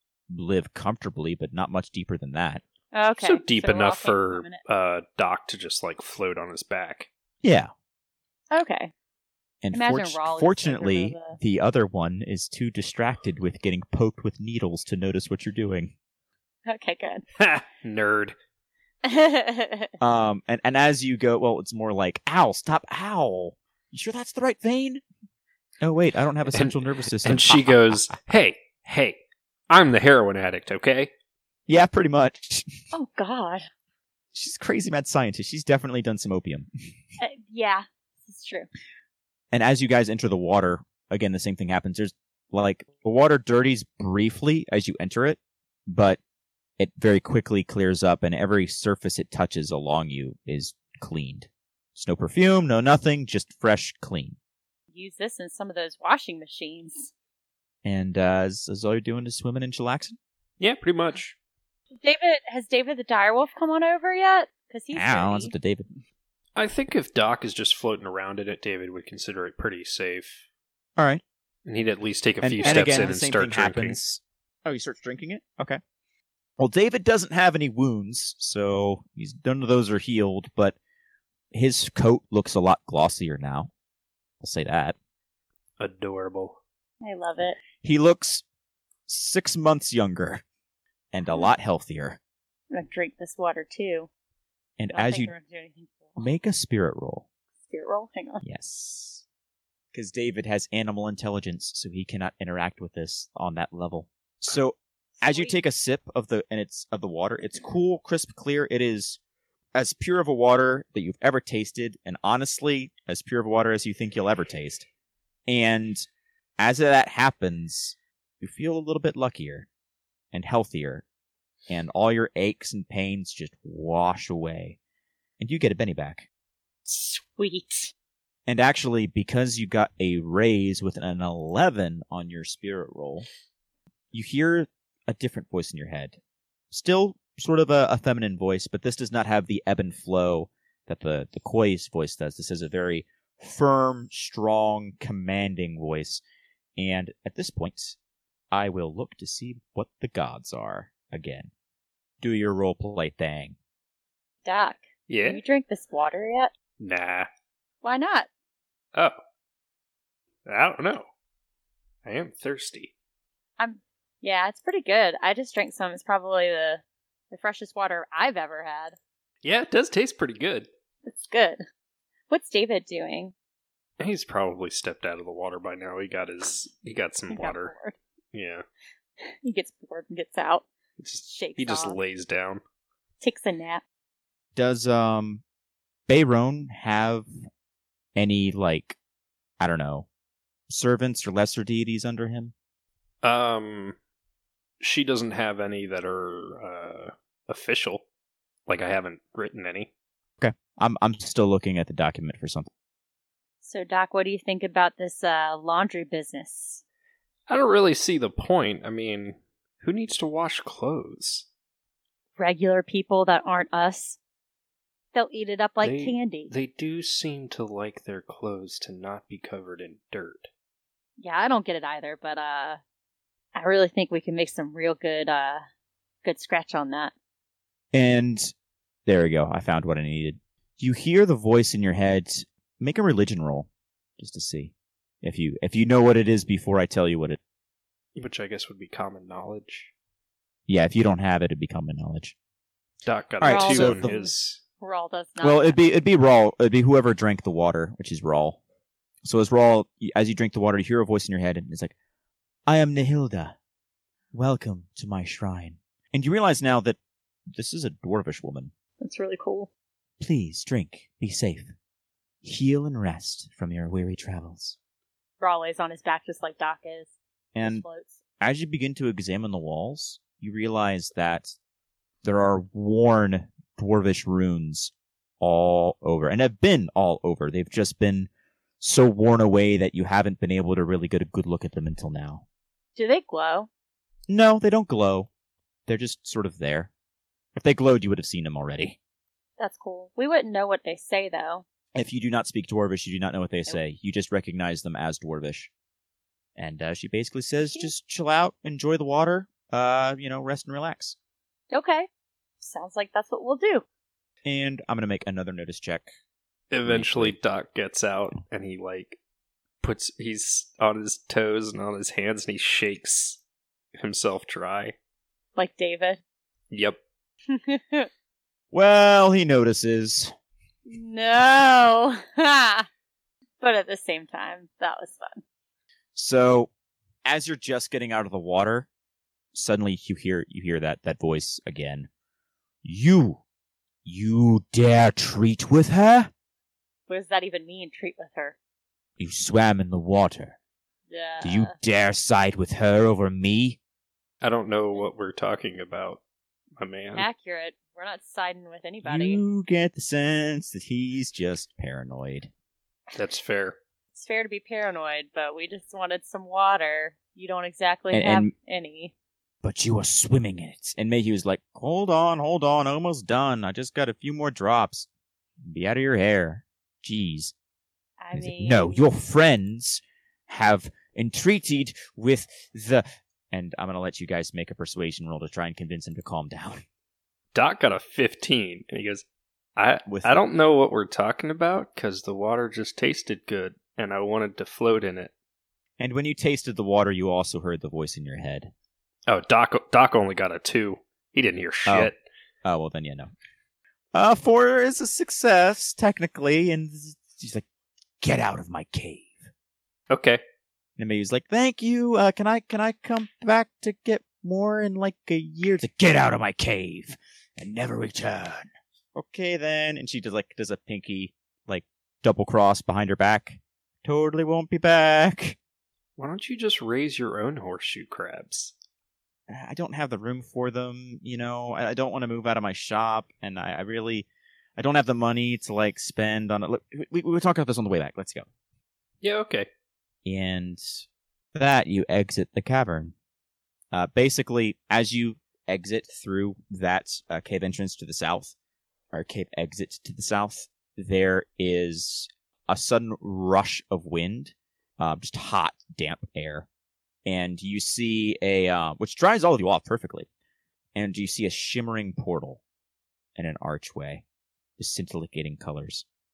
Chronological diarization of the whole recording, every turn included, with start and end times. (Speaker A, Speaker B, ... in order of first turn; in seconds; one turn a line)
Speaker A: 0.3-2.6
Speaker B: 2.9-4.6
Speaker C: 3.2-7.1
Speaker A: 7.4-7.7
Speaker B: 8.5-8.9
Speaker A: 9.6-15.9
Speaker B: 9.7-11.4
Speaker B: 16.7-17.2
Speaker C: 17.4-18.3
Speaker B: 19.0-19.9
Speaker A: 20.0-25.0
Speaker A: 25.8-28.0
Speaker C: 26.5-31.1
Speaker A: 31.7-32.8
Speaker B: 32.9-33.7
Speaker A: 34.3-36.7
Speaker B: 37.2-38.7
Speaker A: 39.5-46.2
Speaker A: 46.8-54.4
Speaker B: 54.9-57.1
Speaker A: 57.8-60.2
Speaker C: 60.6-61.4
Speaker B: 62.0-65.5
Speaker A: 64.9-66.0
Speaker C: 66.5-70.4
Speaker A: 71.0-71.2
Speaker C: 71.6-74.0
Speaker A: 72.4-75.8
Speaker B: 72.6-73.1
Speaker A: 76.6-80.8
Speaker A: 81.5-83.7
Speaker A: 84.4-85.0
Speaker C: 85.8-86.6
Speaker B: 87.0-87.6
Speaker A: 87.8-88.4
Speaker A: 89.1-90.4
Speaker A: 91.1-92.2
Speaker B: 92.7-94.1
Speaker A: 94.8-95.3
Speaker B: 94.9-96.3
Speaker A: 96.2-97.2
Speaker B: 97.7-98.4
Speaker A: 98.4-99.2
Speaker A: 99.9-109.2
Speaker B: 105.2-105.5
Speaker A: 109.7-114.8
Speaker A: 115.5-116.0
Speaker A: 116.6-119.7
Speaker A: 120.3-121.0
Speaker A: 121.7-124.8
Speaker A: 125.4-126.2
Speaker B: 126.9-127.9
Speaker A: 128.4-133.3
Speaker A: 134.1-136.2
Speaker A: 136.7-146.2
Speaker A: 146.8-147.9
Speaker A: 148.5-151.5
Speaker A: 152.2-153.6
Speaker B: 154.4-156.5
Speaker C: 155.1-155.4
Speaker C: 156.8-157.3
Speaker B: 157.8-158.3
Speaker C: 160.4-161.1
Speaker C: 162.0-162.9
Speaker B: 163.6-169.0
Speaker C: 169.4-170.7
Speaker B: 171.0-171.6
Speaker B: 172.3-173.3
Speaker C: 174.0-177.7
Speaker B: 177.3-178.0
Speaker C: 178.3-178.6
Speaker B: 179.2-180.7
Speaker C: 181.0-182.6
Speaker B: 181.2-182.0
Speaker B: 183.2-183.8
Speaker A: 184.5-185.4
Speaker A: 186.1-187.3
Speaker A: 188.1-189.0
Speaker A: 189.6-190.1
Speaker A: 190.7-192.5
Speaker C: 193.2-193.9
Speaker C: 194.8-198.0
Speaker C: 198.7-199.9
Speaker A: 200.4-202.7
Speaker B: 203.6-206.8
Speaker C: 207.5-211.4
Speaker B: 212.4-214.2
Speaker B: 215.1-216.5
Speaker C: 215.8-220.5
Speaker B: 221.2-222.8
Speaker B: 223.5-225.6
Speaker B: 226.2-227.1
Speaker A: 227.9-228.5
Speaker A: 229.1-237.4
Speaker C: 238.2-239.9
Speaker A: 240.7-242.3
Speaker C: 243.0-244.6
Speaker A: 243.4-244.2
Speaker B: 243.5-245.8
Speaker A: 245.4-248.6
Speaker A: 249.2-251.9
Speaker A: 252.7-253.5
Speaker A: 254.3-257.0
Speaker A: 257.5-258.7
Speaker B: 259.0-259.7
Speaker A: 260.2-261.7
Speaker A: 262.4-264.8
Speaker B: 265.4-268.2
Speaker A: 267.5-267.8
Speaker A: 268.4-271.5
Speaker A: 272.2-278.3
Speaker A: 278.8-282.4
Speaker B: 282.9-283.7
Speaker A: 284.3-285.3
Speaker A: 285.9-286.9
Speaker A: 287.5-289.0
Speaker B: 289.6-291.6
Speaker A: 291.9-295.7
Speaker A: 296.6-301.1
Speaker B: 301.7-302.1
Speaker B: 302.6-303.8
Speaker A: 304.4-306.1
Speaker C: 306.7-309.2
Speaker A: 306.9-307.4
Speaker C: 309.8-313.4
Speaker C: 314.0-314.9
Speaker B: 315.6-316.2
Speaker C: 316.7-317.0
Speaker B: 317.5-318.1
Speaker A: 318.7-320.3
Speaker B: 320.9-322.9
Speaker B: 323.6-325.4
Speaker A: 326.1-326.7
Speaker A: 327.2-328.9
Speaker A: 329.5-332.1
Speaker A: 332.8-333.4
Speaker A: 334.0-336.3
Speaker B: 337.1-338.6
Speaker A: 339.2-340.6
Speaker B: 341.1-341.7
Speaker A: 341.4-343.8
Speaker C: 344.4-346.2
Speaker C: 346.8-347.3
Speaker B: 347.1-349.4
Speaker A: 349.0-352.5
Speaker C: 353.1-353.8
Speaker B: 354.1-359.1
Speaker A: 358.1-358.5
Speaker A: 359.6-365.1
Speaker A: 365.6-367.5
Speaker B: 368.2-369.0
Speaker A: 368.3-376.8
Speaker C: 377.5-379.2
Speaker C: 379.8-385.3
Speaker A: 380.1-380.4
Speaker A: 386.0-388.7
Speaker C: 389.3-392.2
Speaker A: 391.9-392.1
Speaker A: 392.6-393.3
Speaker A: 394.1-397.6
Speaker A: 398.2-399.5
Speaker C: 400.1-400.4
Speaker A: 401.0-415.6
Speaker C: 416.2-418.7
Speaker A: 419.5-428.5
Speaker C: 429.2-429.7
Speaker A: 430.2-431.0
Speaker A: 431.5-433.1
Speaker A: 433.9-438.5
Speaker A: 439.1-446.7
Speaker A: 447.2-450.3
Speaker A: 450.9-452.6
Speaker A: 453.4-454.2
Speaker A: 454.8-456.0